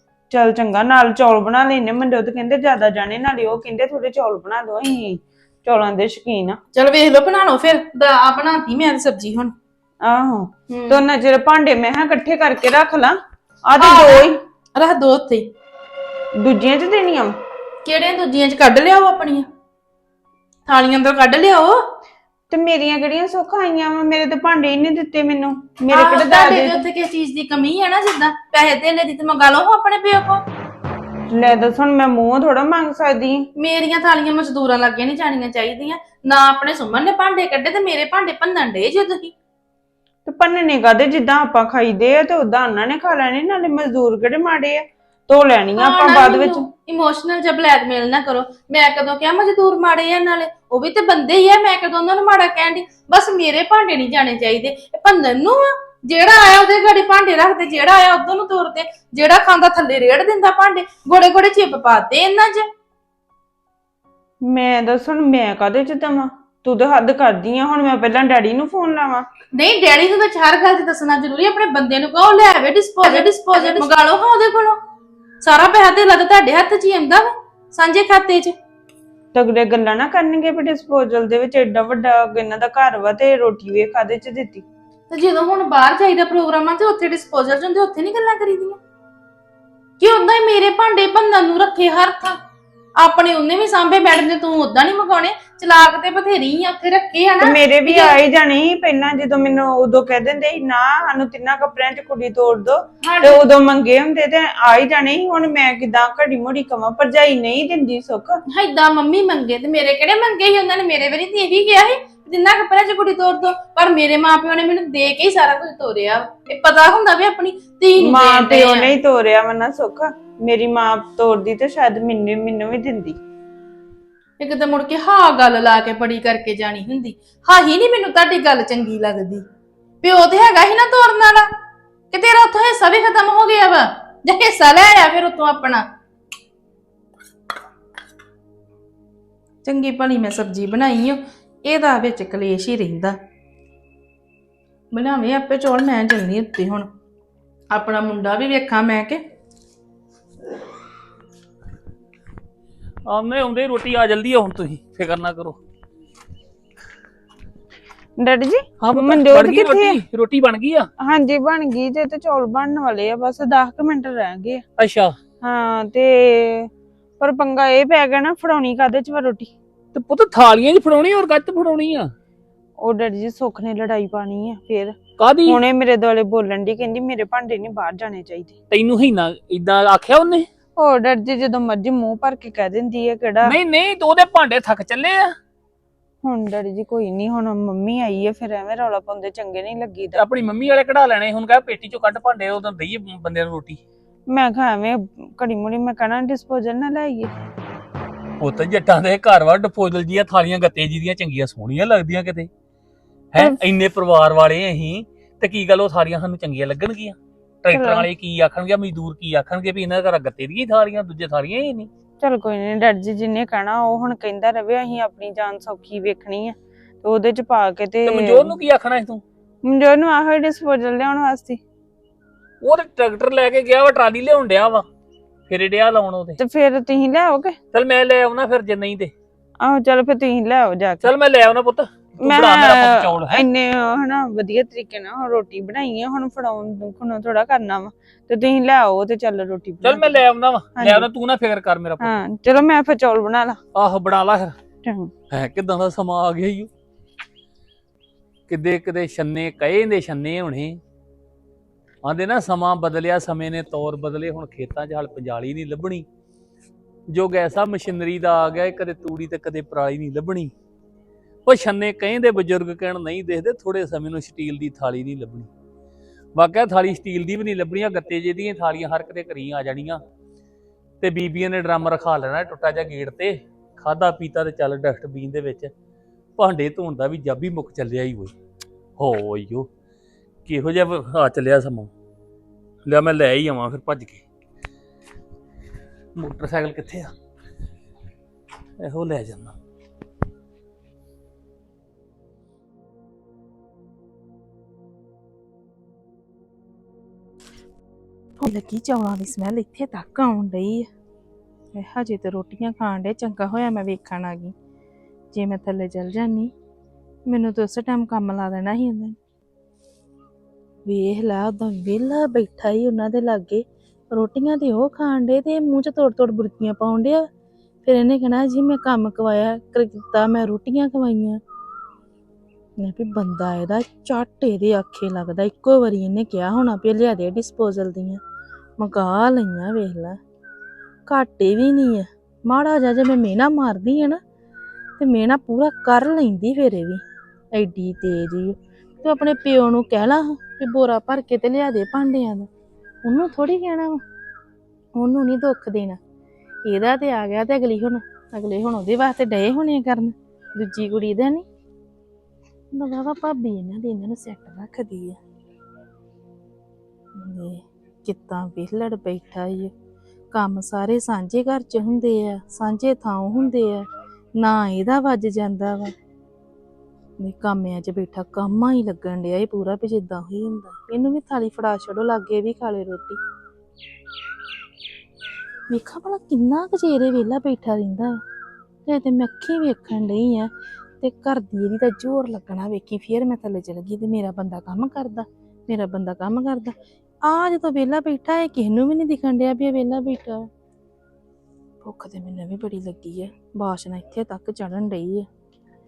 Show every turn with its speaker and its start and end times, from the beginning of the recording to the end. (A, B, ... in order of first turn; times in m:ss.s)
0:00.3-0:06.6 A
0:06.7-0:09.5 B
0:10.0-0:14.4 A
0:10.7-0:11.0 B
0:13.8-0:15.5 B
0:16.4-0:17.4 A
0:17.8-0:19.5 B
0:20.7-0:21.9 B
0:22.5-0:26.8 A
0:25.9-0:30.4 B
0:31.3-0:33.5 A
0:33.6-0:39.3 B
0:40.3-0:46.7 A
0:45.8-1:02.7 B
1:04.4-1:09.3 A
1:09.5-1:14.8 B
1:13.0-1:13.9 A
1:15.4-1:18.6 B
1:19.3-1:24.6 A
1:25.1-1:28.8 B
1:30.0-1:32.4 B
1:33.0-1:38.2 B
1:37.4-1:48.4 A
1:43.0-1:43.5 B
1:48.5-1:58.9 B
1:58.0-2:03.2 A
2:04.4-2:09.4 B
2:10.0-2:11.5 B
2:12.1-2:15.9 B
2:19.6-2:23.2 B
2:24.9-2:26.9 B
2:27.7-2:29.2 B
2:33.1-2:35.6 C
2:38.2-2:40.0 A
2:38.8-2:40.9 C
2:41.0-2:44.6 A
2:44.8-2:45.2 C
2:45.4-2:49.5 A
2:49.9-2:52.1 C
2:52.8-2:58.6 A
2:55.2-2:55.6 C
2:58.7-3:00.5 C
3:00.8-3:03.6 A
3:03.4-3:05.4 C
3:06.2-3:10.2 A
3:10.2-3:13.8 C
3:14.3-3:17.3 A
3:18.4-3:22.5 C
3:23.3-3:31.9 C
3:27.7-3:28.1 A
3:32.2-3:38.6 A
3:38.0-3:39.2 C
3:39.6-3:41.6 A
3:42.6-3:44.8 C
3:45.5-3:46.4 C
3:46.4-3:47.6 A
3:47.7-3:49.1 C
3:49.6-3:51.1 A
3:51.0-3:53.5 C
3:52.2-4:00.2 A
3:59.8-4:02.2 C
4:00.8-4:01.1 A
4:02.0-4:03.6 A
4:03.8-4:04.6 C
4:04.8-4:05.1 A
4:05.3-4:06.7 C
4:08.5-4:10.8 C
4:12.0-4:16.1 C
4:17.1-4:20.5 C
4:21.5-4:25.5 C
4:26.4-4:30.0 C
4:31.0-4:35.7 C
4:36.4-4:38.3 C
4:39.0-4:39.7 C
4:40.5-4:41.9 C
4:42.8-4:44.2 C
4:46.2-4:47.1 C
4:48.8-4:49.6 C
4:58.4-5:00.9 B
5:01.8-5:04.5 B
5:05.3-5:06.5 B
5:07.3-5:09.2 B
5:10.9-5:17.3 B
5:17.8-5:21.4 B
5:22.8-5:28.2 B
5:28.8-5:30.2 B
5:31.1-5:34.2 B
5:35.0-5:37.0 B
5:37.5-5:42.5 B
5:43.0-5:44.0 B
5:45.0-5:46.0 B
5:46.7-5:51.4 B
5:52.7-5:55.2 B
5:57.2-5:59.7 B
6:00.3-6:03.9 B
6:04.4-6:05.9 B
6:07.2-6:13.2 B
6:15.7-6:18.2 B
6:18.9-6:30.5 B
6:31.8-6:35.3 B